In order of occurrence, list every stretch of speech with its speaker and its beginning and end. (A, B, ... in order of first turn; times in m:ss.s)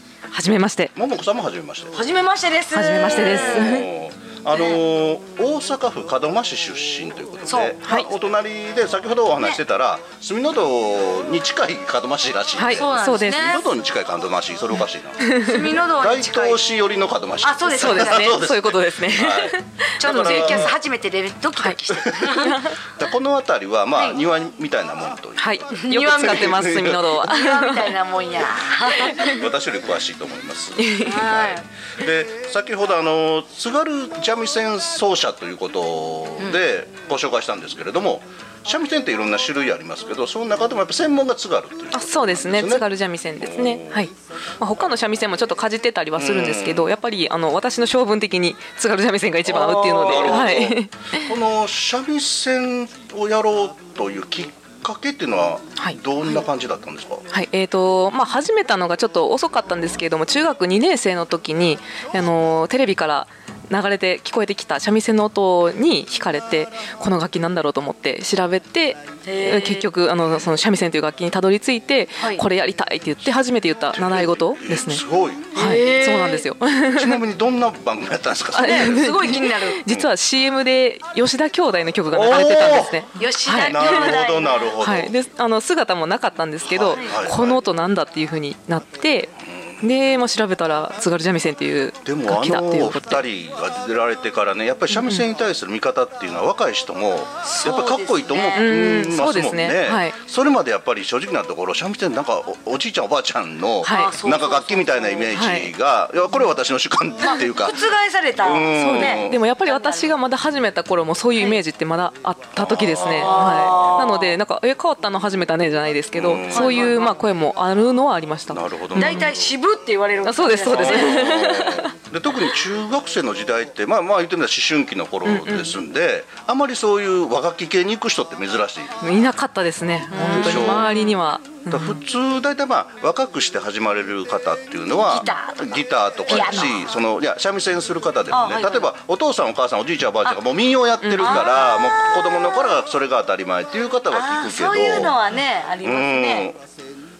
0:00.3-0:00.9 A
0:00.9-0:02.1 B
0:01.9-0:03.7 C
0:02.7-0:03.9 A
0:03.0-0:20.8 B
0:04.5-0:04.8 C
0:07.4-0:07.8 C
0:12.6-0:13.6 A
0:12.7-0:13.6 C
0:15.2-0:15.6 A
0:15.4-0:16.6 C
0:17.4-0:18.4 C
0:17.8-0:20.7 A
0:20.0-0:22.6 C
0:21.9-0:27.2 B
0:22.3-0:22.7 A
0:25.4-0:27.9 A
0:25.8-0:29.3 C
0:28.4-0:44.1 B
0:29.0-0:29.4 A
0:30.8-0:31.1 A
0:31.0-0:31.6 C
0:41.9-0:51.3 A
0:46.2-0:46.9 B
0:49.5-0:50.5 C
0:49.5-0:57.2 B
0:55.8-0:56.4 A
0:57.3-1:15.0 A
1:09.2-1:09.9 C
1:12.2-1:12.4 C
1:13.9-1:15.5 B
1:15.5-1:16.4 C
1:15.5-1:17.2 A
1:16.9-1:19.4 B
1:18.5-1:24.2 A
1:18.6-1:19.8 C
1:22.1-1:23.0 B
1:23.2-1:24.6 C
1:23.6-1:25.2 B
1:24.8-1:33.2 A
1:26.6-1:27.6 B
1:29.5-1:29.8 B
1:32.0-1:47.8 B
1:34.9-1:35.2 A
1:37.4-1:38.9 C
1:38.6-1:40.2 A
1:43.8-1:44.1 A
1:43.8-1:45.3 C
1:45.3-1:45.7 A
1:47.3-1:50.2 C
1:48.4-1:49.4 B
1:48.7-1:59.3 A
1:52.6-1:54.1 B
1:53.0-1:54.4 C
1:56.1-1:56.9 B
1:56.5-1:57.2 C
1:58.5-1:59.5 B
1:59.0-2:01.3 C
2:00.2-2:01.9 A
2:00.7-2:09.0 B
2:05.2-2:05.8 A
2:09.0-2:12.0 A
2:10.1-2:11.2 C
2:10.3-2:10.9 B
2:11.7-2:25.2 B
2:15.0-2:16.8 C
2:16.3-2:16.7 A
2:18.3-2:18.9 C
2:21.0-2:21.6 A
2:21.2-2:22.6 C
2:24.1-2:26.5 C
2:25.8-2:26.6 B